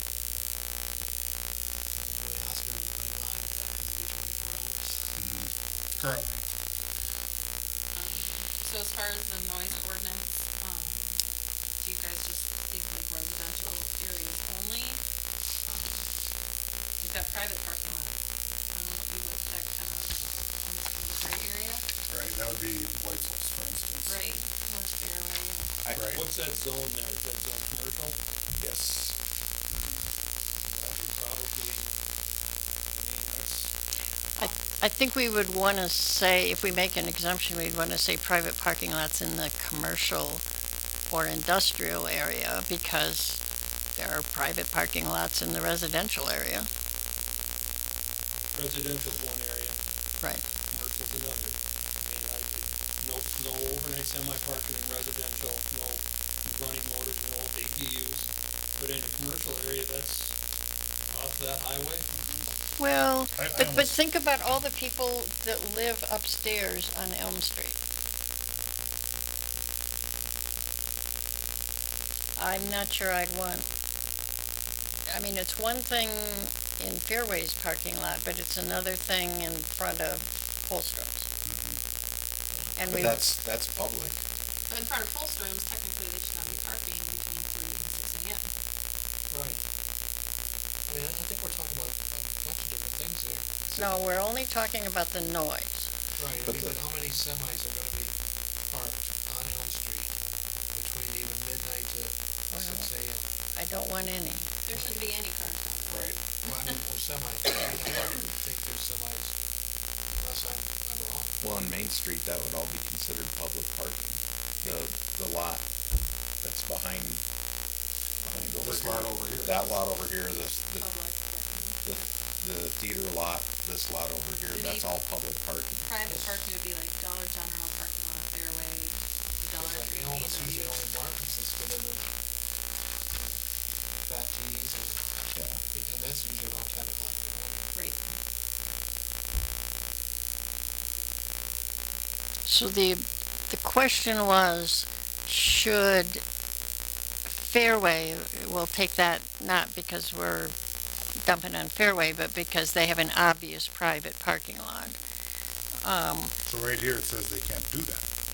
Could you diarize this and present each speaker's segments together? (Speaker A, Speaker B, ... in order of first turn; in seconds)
Speaker A: 2.0-5.2, 82.6-83.0, 89.3-89.6, 90.9-93.5, 96.2-100.2, 100.7-103.3, 104.7-105.0, 106.4-109.3, 110.2-111.4, 126.0-126.4, 129.6-132.1, 133.1-133.4, 134.0-135.1, 135.7-137.6
Speaker B: 5.2-6.4, 22.1-24.2, 25.9-26.2, 29.7-30.0, 62.1-62.5, 63.4-64.0, 81.5-81.8, 105.9-106.2, 118.3-119.8, 156.4-158.0
Speaker C: 7.9-11.2, 11.8-15.0, 15.7-16.1, 17.0-18.1, 18.7-21.8, 24.1-25.7, 84.7-88.5, 104.7-106.6, 120.8-122.0, 124.5-124.9, 125.8-130.8, 137.7-138.1
Speaker D: 25.9-26.2, 28.6-29.1, 82.9-84.2, 93.7-94.0, 96.4-96.8, 111.4-115.6, 116.4-117.2, 118.2-120.9, 121.8-125.9, 135.3-135.6
Speaker E: 26.1-28.2, 30.7-31.9, 32.9-33.7, 48.5-49.8, 50.7-60.3, 61.1-62.1
Speaker F: 34.4-40.4, 41.1-43.4, 44.0-46.7, 62.8-67.8, 72.4-73.7, 75.1-81.3, 82.8-83.2, 93.8-95.9, 102.5-102.9, 103.5-104.5, 142.5-146.2, 147.3-150.5, 151.2-155.0, 155.8-156.3